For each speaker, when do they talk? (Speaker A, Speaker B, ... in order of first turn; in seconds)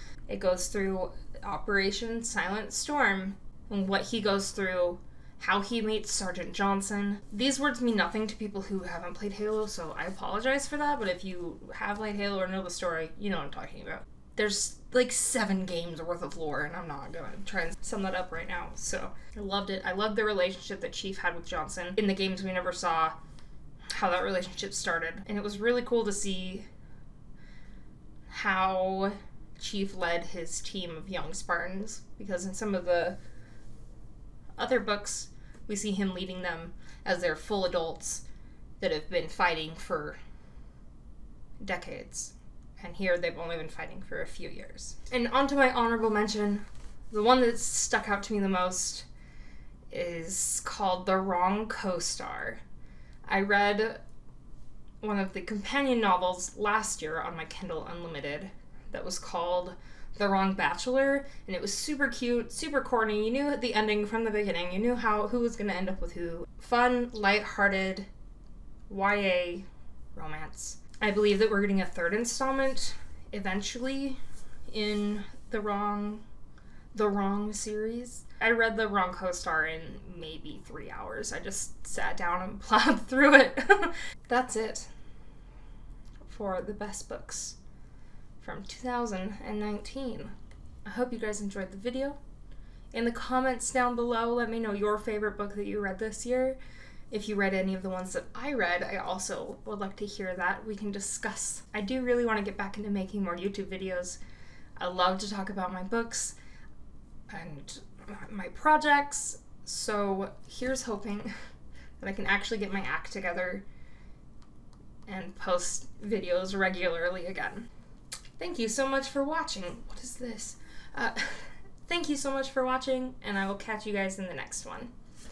Speaker A: 0.3-23.1, 23.9-26.6, 28.3-33.2, 34.6-38.2, 38.8-40.2, 41.6-49.0, 49.9-52.6, 53.3-54.0, 55.0-68.1, 68.9-76.2, 76.9-84.9, 86.2-87.6, 88.4-90.3, 90.8-92.2, 92.9-96.6, 97.1-104.2, 104.8-106.3, 107.3-111.3, 112.0-113.6, 115.1-117.7, 118.4-124.9